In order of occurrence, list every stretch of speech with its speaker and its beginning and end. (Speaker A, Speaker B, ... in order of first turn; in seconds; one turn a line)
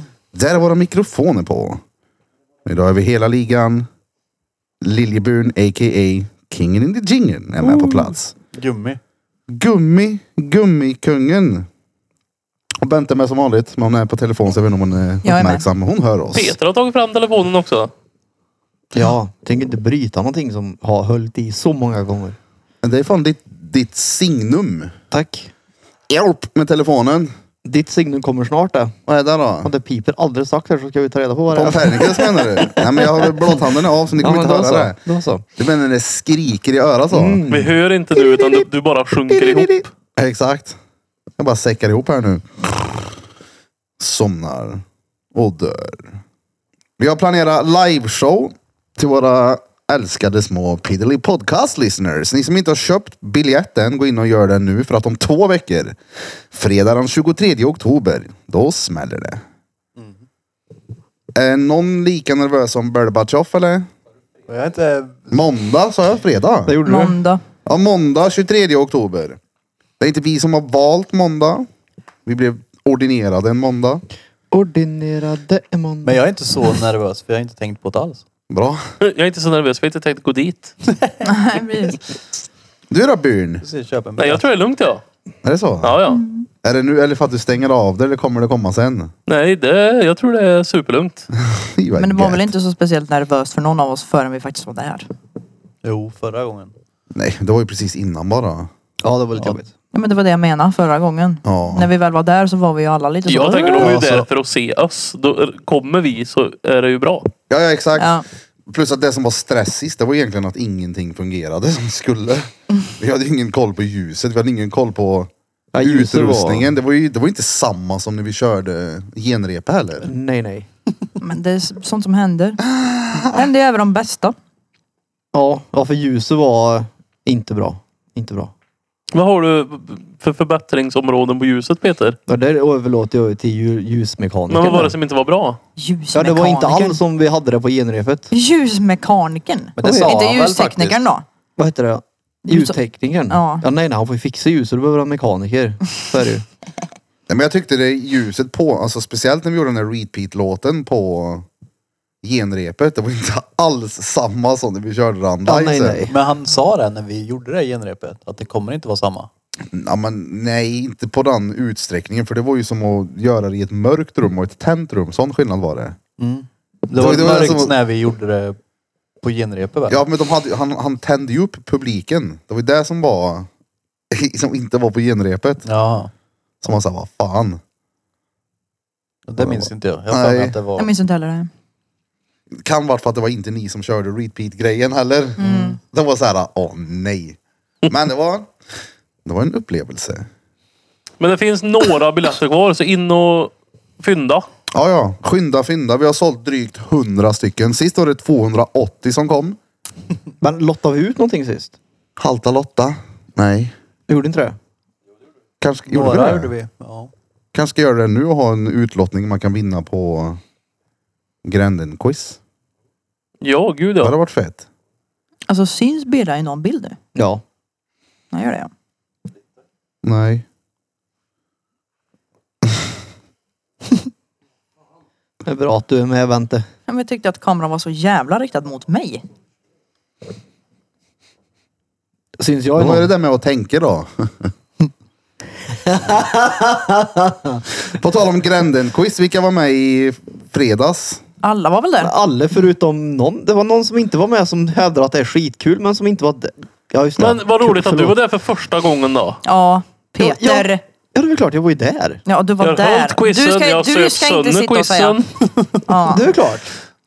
Speaker A: 0.3-1.8
Speaker A: 2.6-3.9
Speaker A: 4.8-8.3
Speaker B: 8.5-9.0
Speaker A: 9.5-11.7
Speaker A: 12.8-16.5
Speaker C: 15.2-15.6
Speaker D: 16.3-17.9
Speaker E: 18.9-22.4
Speaker A: 22.8-24.9
Speaker E: 25.1-25.5
Speaker A: 26.1-27.3
Speaker E: 27.6-28.9
Speaker A: 29.1-29.7
Speaker E: 29.6-33.5
Speaker A: 31.5-35.0
Speaker E: 34.2-35.4
Speaker A: 35.6-37.4
Speaker E: 37.1-38.6
Speaker D: 37.5-39.9
Speaker E: 39.2-39.8
Speaker A: 40.2-40.8
Speaker A: 41.4-43.2
Speaker A: 44.0-46.2
Speaker A: 47.0-56.0
Speaker A: 56.5-59.4
Speaker A: 61.3-63.9
Speaker B: 64.5-65.3
Speaker A: 65.3-66.8
Speaker E: 66.7-67.2
Speaker C: 66.8-67.4
Speaker A: 67.7-69.4
Speaker A: 70.0-71.7
Speaker A: 72.2-74.0
Speaker E: 74.5-76.2
Speaker B: 76.0-78.2
Speaker A: 78.5-78.8
Speaker D: 79.0-80.7
Speaker B: 80.9-81.1
Speaker C: 81.2-82.0
Speaker A: 82.9-83.6
Speaker B: 83.6-84.4
Speaker D: 84.2-85.0
Speaker A: 85.4-86.0
Speaker D: 85.8-86.2
Speaker C: 86.1-86.5
Speaker A: 86.6-89.1
Speaker D: 89.3-91.3
Speaker A: 91.4-92.5
Speaker C: 92.0-95.1
Speaker B: 95.8-96.7
Speaker A: 97.1-98.7
Speaker E: 99.0-99.7
Speaker C: 99.9-103.9
Speaker A: 101.4-101.9
Speaker D: 103.3-107.3
Speaker B: 103.8-104.3
Speaker A: 107.5-120.1
Speaker C: 108.0-108.2
Speaker E: 115.7-116.7
Speaker E: 120.0-120.7
Speaker C: 121.2-122.6
Speaker A: 122.6-123.5
Speaker C: 123.3-124.3
Speaker E: 125.3-128.5
Speaker D: 129.1-132.2
Speaker E: 132.3-134.9
Speaker D: 134.5-135.6
Speaker C: 135.8-137.0
Speaker E: 136.1-138.3
Speaker C: 138.3-141.2
Speaker B: 139.8-141.0
Speaker E: 139.8-140.2
Speaker E: 141.6-146.4
Speaker C: 142.4-142.8
Speaker C: 143.3-143.6
Speaker A: 147.3-151.4
Speaker A: 152.2-156.1
Speaker E: 155.4-156.1
Speaker B: 156.1-159.3
Speaker A: 159.7-166.0
Speaker B: 166.2-168.6
Speaker A: 166.9-167.8
Speaker B: 169.2-170.0
Speaker A: 169.9-173.5
Speaker A: 174.1-175.7
Speaker B: 175.6-176.1
Speaker A: 176.6-177.6
Speaker B: 179.3-180.9
Speaker E: 179.4-179.7
Speaker A: 180.1-180.6
Speaker C: 180.8-181.5
Speaker A: 182.5-187.4
Speaker C: 185.4-185.8
Speaker A: 187.9-188.5
Speaker A: 189.2-190.3
Speaker D: 191.2-194.5
Speaker A: 194.7-199.6
Speaker E: 200.4-201.8
Speaker A: 202.2-203.7
Speaker E: 204.1-204.6
Speaker A: 205.6-206.5
Speaker B: 205.9-207.1
Speaker A: 207.5-210.4
Speaker A: 211.4-212.4
Speaker D: 213.4-214.1
Speaker A: 214.0-214.6
Speaker C: 215.5-217.0
Speaker E: 217.1-217.4
Speaker C: 218.3-218.7
Speaker A: 220.0-220.4
Speaker E: 225.4-226.7
Speaker C: 226.9-229.2
Speaker E: 232.4-233.1
Speaker A: 232.8-234.5
Speaker E: 235.8-237.6
Speaker A: 237.8-241.2
Speaker C: 241.4-242.1
Speaker E: 242.0-248.1
Speaker D: 247.2-249.4
Speaker C: 249.4-250.8
Speaker E: 250.2-252.2
Speaker C: 252.2-255.2
Speaker D: 252.6-255.3
Speaker C: 255.8-256.2
Speaker E: 256.1-256.7